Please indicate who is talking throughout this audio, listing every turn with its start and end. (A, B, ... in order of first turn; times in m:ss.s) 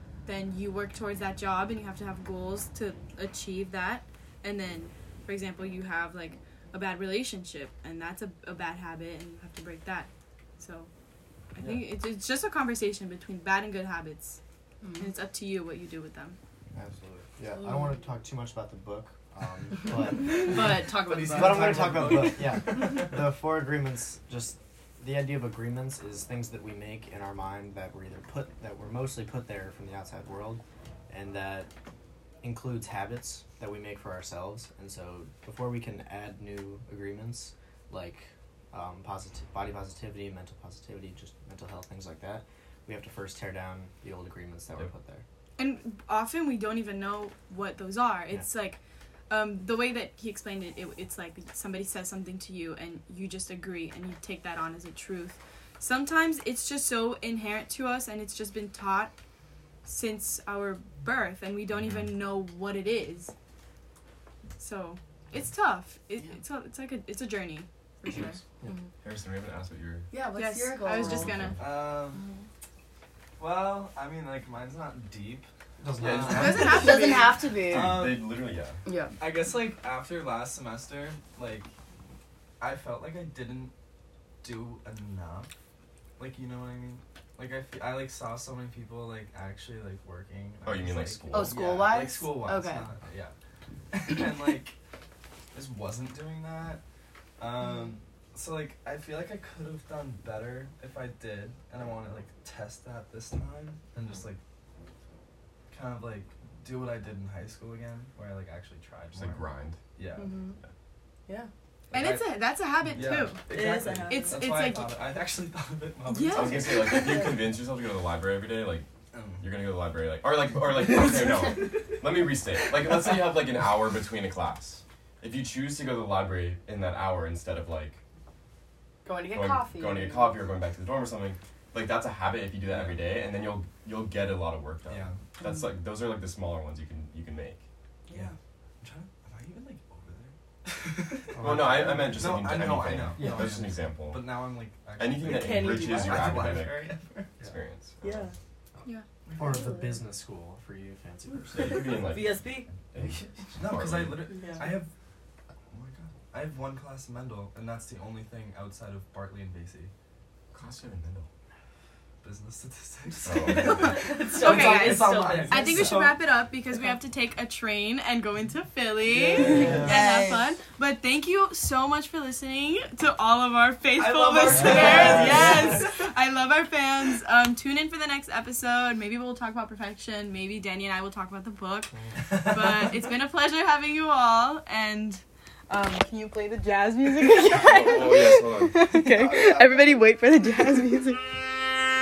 0:00.3-0:10.9 A
0:11.6-0:14.4 A
0:14.8-0:15.1 B
0:15.0-0:16.4 A
0:16.7-0:20.5 C
0:17.6-0:17.9 B
0:20.2-0:22.4 B
0:20.3-0:23.2 D
0:21.4-0:31.7 C
0:32.4-0:45.2 C
0:45.6-0:59.1 A
0:59.8-1:03.3 A
1:01.7-1:02.1 E
1:04.6-1:08.4 A
1:08.1-1:08.4 E
1:09.0-1:10.1 E
1:10.1-1:11.5 B
1:10.3-1:11.7 A
1:11.1-1:11.6 E
1:11.6-1:12.3 D
1:12.1-1:12.5 B
1:13.4-1:17.1 D
1:15.8-1:16.8 C
1:16.0-1:16.8 E
1:16.4-1:17.4 A
1:16.5-1:18.1 B
1:17.6-1:18.5 D
1:17.7-1:18.8 E
1:18.8-1:19.2 B
1:19.2-1:21.7 D
1:22.6-1:23.7 D
1:24.4-1:25.5 D
1:26.2-1:33.3 D
1:30.6-1:31.6 E
1:31.3-1:32.9 B
1:33.9-1:34.8 D
1:35.5-1:36.8 D
1:37.4-1:44.4 D
1:45.7-1:50.4 D
1:49.1-1:49.8 E
1:50.2-1:50.6 B
1:51.9-1:57.4 D
1:51.9-1:55.0 A
1:53.3-1:54.4 B
1:56.1-1:57.2 A
1:56.3-1:58.9 E
1:57.0-1:57.4 B
1:59.1-1:59.6 D
1:59.4-2:08.0 E
2:00.6-2:02.1 D
2:09.0-2:10.4 B
2:09.3-2:17.6 E
2:12.6-2:13.0 D
2:14.9-2:15.2 D
2:18.1-2:18.4 B
2:18.1-2:27.4 D
2:21.3-2:22.5 C
2:21.4-2:24.3 E
2:23.2-2:23.7 C
2:25.0-2:28.3 E
2:25.2-2:26.6 B
2:28.0-2:28.4 B
2:29.3-2:29.7 D
2:29.4-2:32.1 C
2:29.4-2:30.0 B
2:31.5-2:33.5 B
2:31.5-2:34.3 E
2:33.6-2:34.9 D
2:34.3-2:34.8 B
2:35.7-2:39.9 D
2:40.5-2:41.3 E
2:42.2-2:46.2 D
2:43.2-2:44.0 E
2:43.3-2:46.1 B
2:44.3-3:11.3 A
2:49.1-2:50.1 D
2:49.1-2:50.5 B
2:49.4-2:50.0 E
2:53.9-2:56.1 D
2:54.5-2:55.6 C
2:54.6-2:55.3 B
2:54.6-2:55.5 E
3:02.6-3:02.9 D
3:07.4-3:08.9 E
3:08.9-3:09.4 B
3:09.0-3:10.1 D